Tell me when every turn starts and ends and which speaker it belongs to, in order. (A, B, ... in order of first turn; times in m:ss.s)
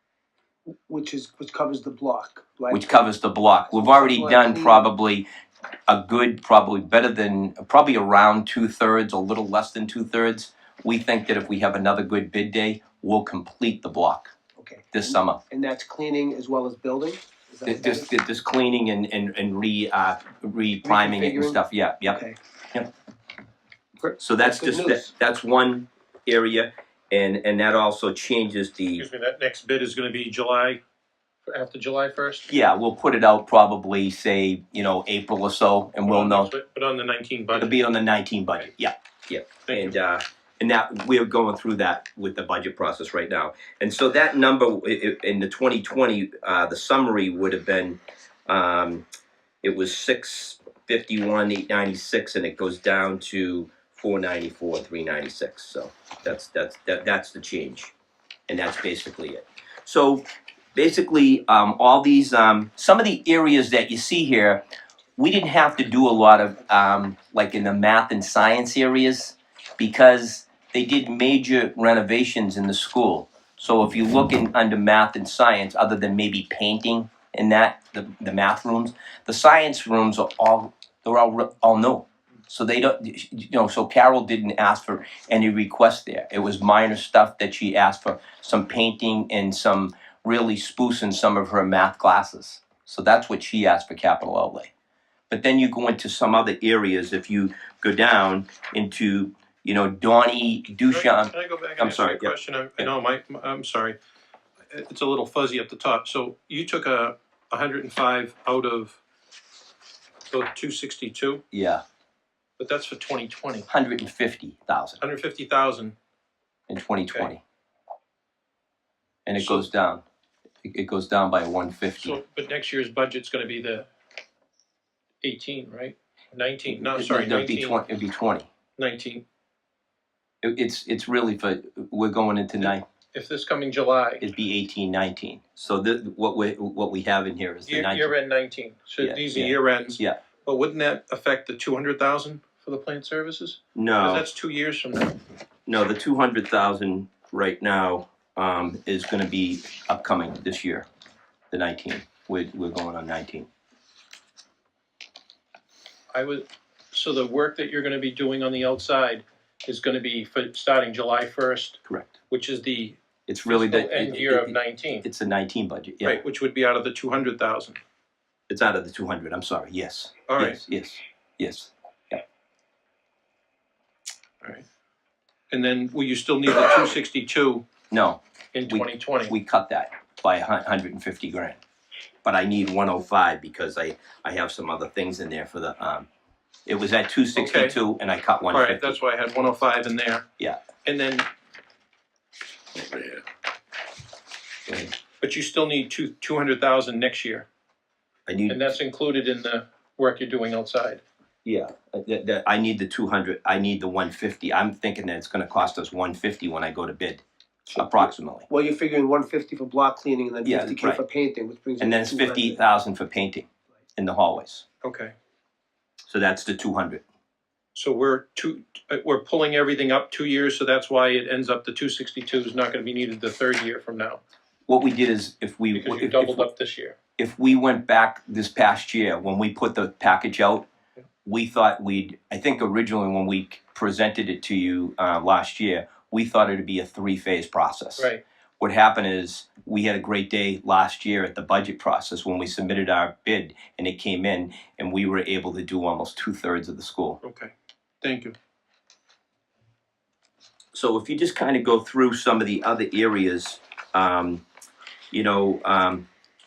0:00.9-0:03.0 A
0:02.7-0:05.3 B
0:03.7-0:04.8 A
0:05.9-0:14.3 B
0:14.6-0:18.1 A
0:14.9-0:15.4 B
0:17.7-0:22.2 B
0:20.8-0:22.4 A
0:24.0-0:25.1 A
0:24.2-0:29.1 B
0:29.0-0:30.8 C
0:31.4-0:32.5 C
0:32.5-0:36.5 B
0:36.0-0:37.8 C
0:37.5-0:49.0 B
0:39.7-0:40.0 C
0:49.6-0:57.9 B
0:58.5-1:04.6 B
1:05.2-1:34.7 B
1:35.3-1:42.9 B
1:40.9-1:44.0 C
1:44.7-1:49.0 C
1:50.3-1:51.4 C
1:51.5-1:51.8 B
1:52.6-1:53.7 C
1:53.7-1:55.0 B
1:55.0-1:56.0 C
1:56.7-1:57.4 B
1:59.2-2:00.0 B
1:59.4-1:59.7 C
2:00.6-2:02.2 B
2:02.0-2:03.9 C
2:05.2-2:07.8 C
2:06.7-2:08.5 B
2:08.8-2:09.2 C
2:10.4-2:12.8 B
2:12.6-2:14.2 C
2:14.2-2:18.1 B
2:17.7-2:25.2 C
2:19.0-2:20.2 B
2:23.8-2:24.3 B
2:25.7-2:30.9 B
2:31.5-2:33.5 B
2:36.1-2:45.1 C
2:41.9-2:42.1 B
2:43.3-2:46.2 B
2:46.0-2:47.8 C
2:48.5-2:52.2 B
2:50.3-2:50.6 C
2:55.5-2:57.7 C
2:57.9-3:01.6 B
2:58.5-2:59.4 C
3:02.2-3:06.1 B
3:06.7-3:09.0 B
3:07.4-3:07.8 C
3:08.5-3:10.2 C
3:10.8-3:11.3 C
3:12.8-3:13.2 C
3:14.7-3:14.9 B
3:15.2-3:17.5 C
3:18.3-3:18.7 B
3:18.5-3:21.0 C
3:21.4-3:27.2 B
3:27.7-3:32.7 A
3:27.8-3:28.5 B
3:30.4-3:31.0 B
3:31.8-3:34.6 B
3:34.8-3:35.1 C
3:36.1-3:37.0 B
3:37.8-3:44.2 C
3:44.7-3:46.5 B
3:45.7-3:47.0 C
3:47.2-3:50.7 B
3:51.2-4:07.2 B
4:07.2-4:08.4 C
4:10.7-4:14.4 B
4:15.1-4:16.1 B